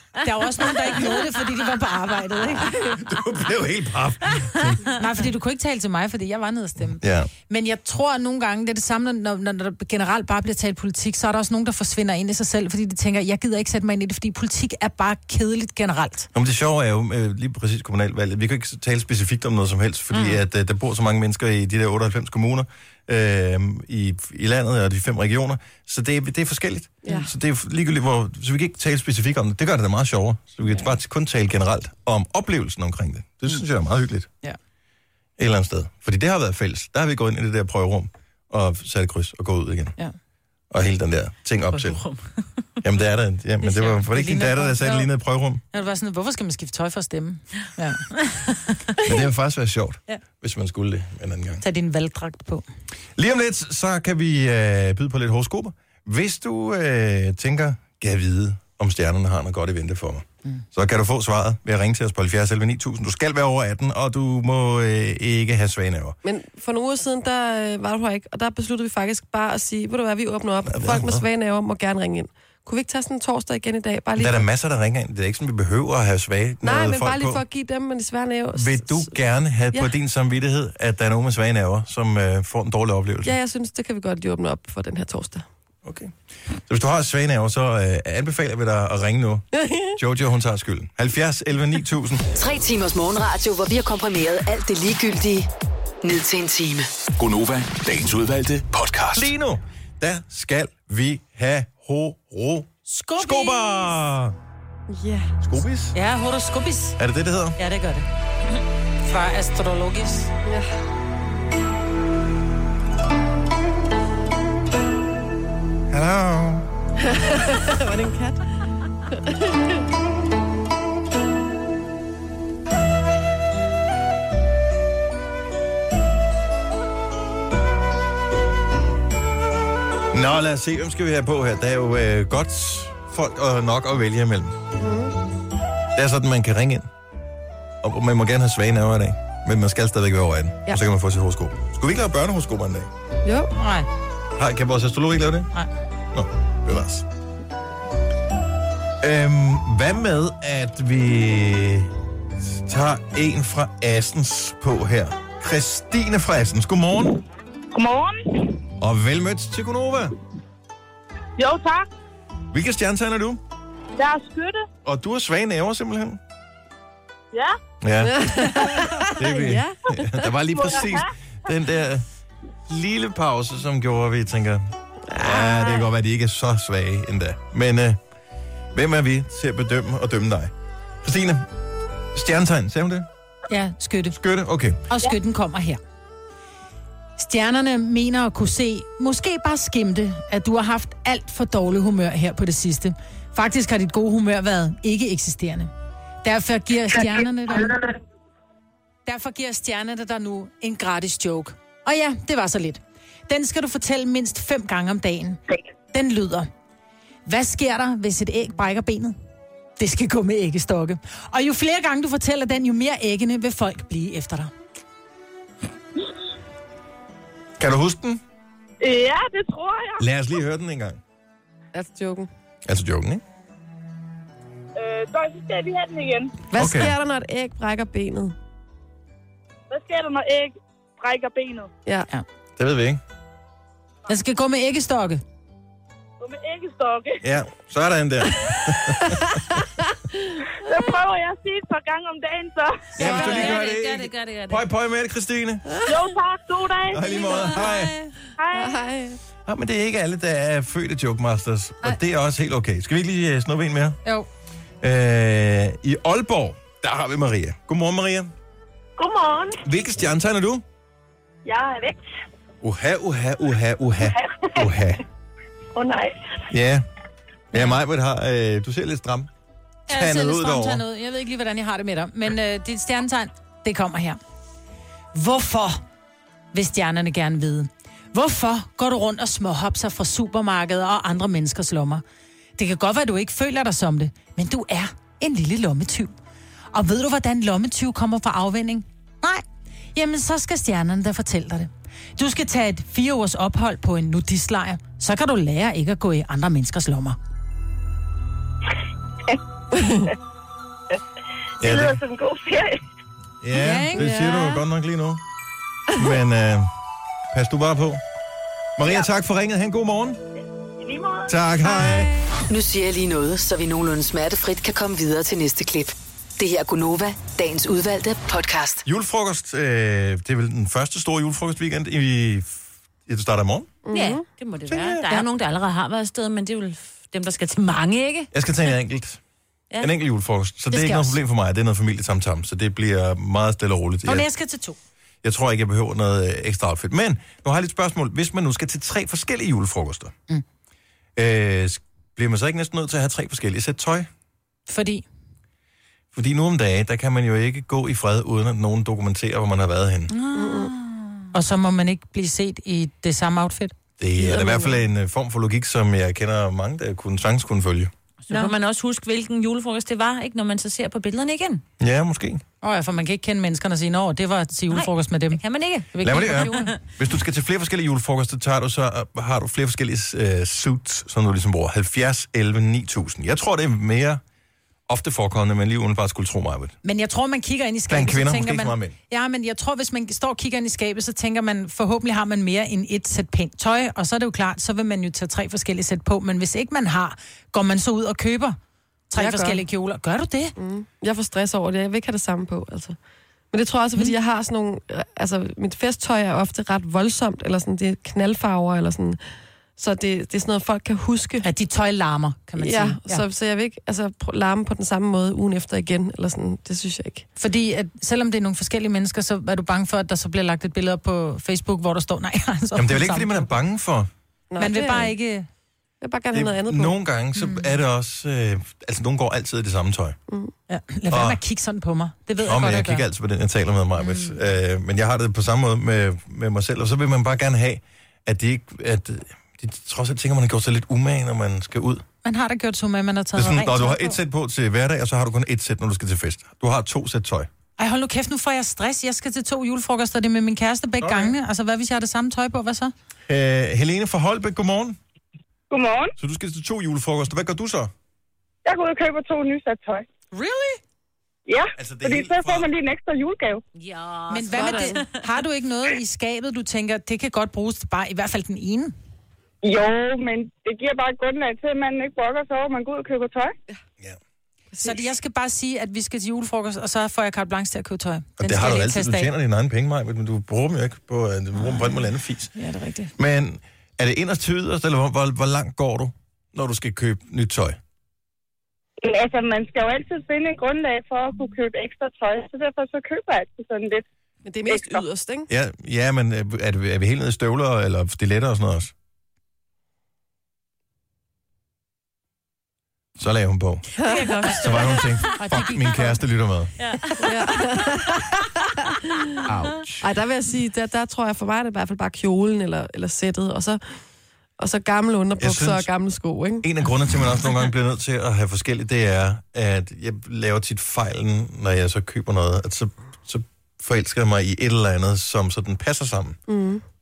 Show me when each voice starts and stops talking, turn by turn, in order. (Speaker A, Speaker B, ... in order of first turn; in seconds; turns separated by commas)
Speaker A: 0.2-2.8, Speaker B: 2.7-4.8, Speaker A: 4.9-16.3, Speaker B: 7.0-7.3, Speaker B: 16.3-34.3, Speaker B: 35.4-40.0, Speaker B: 40.7-42.0, Speaker C: 41.7-42.2, Speaker B: 42.8-45.6, Speaker A: 43.6-45.1, Speaker A: 45.7-48.1, Speaker B: 49.0-51.6, Speaker A: 51.6-52.6, Speaker B: 53.2-66.2, Speaker D: 66.2-74.4, Speaker B: 70.7-71.3, Speaker B: 74.2-77.4, Speaker D: 76.6-79.1, Speaker B: 78.5-83.4, Speaker D: 83.2-85.5, Speaker B: 85.8-86.1, Speaker B: 86.7-92.3, Speaker D: 89.6-89.9, Speaker E: 92.3-95.5, Speaker E: 96.0-96.9, Speaker F: 97.2-99.3, Speaker B: 99.1-104.4, Speaker A: 102.9-104.0, Speaker D: 104.9-105.3, Speaker B: 105.4-106.0, Speaker A: 105.9-107.0, Speaker B: 107.0-107.6, Speaker A: 107.6-108.1, Speaker A: 109.0-110.3, Speaker B: 115.9-116.7, Speaker D: 117.0-118.5, Speaker D: 119.1-119.8, Speaker B: 130.1-134.6, Speaker D: 134.8-135.2, Speaker B: 135.9-136.9, Speaker B: 137.8-142.9, Speaker D: 143.2-143.5, Speaker A: 143.6-143.9, Speaker B: 144.4-145.5, Speaker B: 146.1-147.1, Speaker B: 149.0-157.2, Speaker G: 157.7-158.1, Speaker B: 158.8-160.2, Speaker G: 161.4-161.9, Speaker B: 162.5-163.4, Speaker G: 164.0-164.6, Speaker B: 164.8-166.2, Speaker B: 167.8-172.1, Speaker D: 168.0-170.3, Speaker G: 170.5-171.1, Speaker B: 172.7-178.0, Speaker D: 175.1-175.8, Speaker B: 178.7-180.5, Speaker B: 181.0-181.5, Speaker B: 182.1-183.1, Speaker A: 183.5-184.2, Speaker B: 184.2-184.8, Speaker A: 184.9-185.8, Speaker A: 187.2-195.7, Speaker A: 196.2-197.8, Speaker A: 199.1-205.4, Speaker A: 205.9-206.5, Speaker A: 207.3-209.2, Speaker A: 209.8-214.5, Speaker B: 217.6-218.2, Speaker G: 218.8-220.1, Speaker B: 220.0-221.0, Speaker D: 221.7-222.3, Speaker B: 222.7-223.2, Speaker G: 224.8-226.4, Speaker D: 226.5-228.3, Speaker B: 226.6-227.0, Speaker G: 229.7-231.7, Speaker B: 232.6-233.0, Speaker A: 234.1-235.2, Speaker G: 236.2-237.2, Speaker B: 237.2-239.4, Speaker D: 239.1-239.6, Speaker G: 240.6-243.0, Speaker C: 243.0-244.6, Speaker B: 243.0-245.8, Speaker D: 245.7-246.1, Speaker G: 245.9-247.5, Speaker B: 246.9-248.0, Speaker G: 248.4-248.8, Speaker D: 248.5-249.2, Speaker B: 249.5-254.0, Speaker B: 254.8-258.3, Speaker G: 259.0-259.6, Speaker B: 259.6-260.6, Speaker G: 261.5-262.0, Speaker B: 262.6-265.0, Speaker G: 265.8-266.2, Speaker B: 266.5-266.9, Speaker B: 267.5-269.3, Speaker B: 269.9-270.8, Speaker A: 269.9-274.2, Speaker A: 275.1-275.8, Speaker A: 276.5-282.0, Speaker A: 282.6-286.1, Speaker A: 286.7-289.4, Speaker A: 289.9-297.2, Speaker D: 299.7-300.0, Speaker B: 301.6-302.0, Speaker G: 301.6-302.8, Speaker B: 303.4-305.2, Speaker A: 303.6-304.1, Speaker D: 304.0-304.6, Speaker B: 305.9-306.7, Speaker B: 307.3-308.0, Speaker B: 308.8-310.2, Speaker G: 310.8-311.3, Speaker B: 311.3-312.1, Speaker D: 311.7-312.2, Speaker E: 312.5-318.8, Speaker B: 318.9-323.7, Speaker D: 323.9-324.2, Speaker C: 323.9-328.3, Speaker B: 324.7-325.2, Speaker B: 328.3-329.2, Speaker B: 329.8-334.3, Speaker A: 330.7-331.2, Speaker A: 334.1-334.8, Speaker B: 335.2-340.1, Speaker B: 341.2-344.1, Speaker A: 344.7-345.1, Speaker B: 346.1-350.1, Speaker C: 350.3-351.2, Speaker D: 350.4-350.7, Speaker A: 351.3-353.7, Speaker B: 354.0-357.9, Speaker D: 354.3-354.6, Speaker C: 358.2-361.6, Speaker B: 361.8-362.4, Speaker A: 362.6-365.4, Speaker C: 364.7-366.8, Speaker A: 365.9-366.7, Speaker B: 366.0-374.2, Speaker B: 374.9-376.8, Speaker A: 376.8-388.6, Speaker B: 377.9-378.9, Speaker A: 389.1-390.5, Speaker D: 389.2-389.6, Speaker D: 390.6-393.0, Speaker D: 393.5-399.2, Speaker D: 399.8-401.4, Speaker A: 401.4-403.2, Speaker D: 402.6-407.2, Speaker A: 407.4-413.5, Speaker B: 412.8-414.1, Speaker D: 414.5-415.1, Speaker A: 414.6-415.5, Speaker D: 416.0-416.9, Speaker B: 416.3-420.2, Speaker A: 420.7-423.1, Speaker B: 421.1-421.4, Speaker B: 422.4-432.1, Speaker A: 432.2-434.2, Speaker B: 433.4-437.5, Speaker A: 437.8-442.9, Speaker B: 441.0-441.4, Speaker B: 443.3-445.0, Speaker G: 445.7-446.1, Speaker B: 446.2-447.9, Speaker G: 448.6-450.1, Speaker A: 450.3-450.8, Speaker G: 451.5-453.6, Speaker B: 451.8-452.7, Speaker C: 453.8-455.1, Speaker A: 454.3-458.9, Speaker G: 459.6-463.6, Speaker A: 464.8-469.3, Speaker B: 468.4-472.5, Speaker A: 471.6-472.0, Speaker A: 472.5-473.1, Speaker B: 473.2-477.8, Speaker G: 479.0-484.0, Speaker D: 484.4-485.5, Speaker G: 484.7-485.1, Speaker B: 485.5-488.9, Speaker B: 493.2-493.9, Speaker A: 494.0-496.2, Speaker D: 494.0-494.7, Speaker B: 494.4-496.7, Speaker C: 496.8-497.3, Speaker D: 497.2-498.5, Speaker B: 499.6-499.8, Speaker D: 500.0-503.8, Speaker D: 504.6-506.7, Speaker B: 505.4-505.9, Speaker B: 506.6-516.4, Speaker D: 516.5-516.8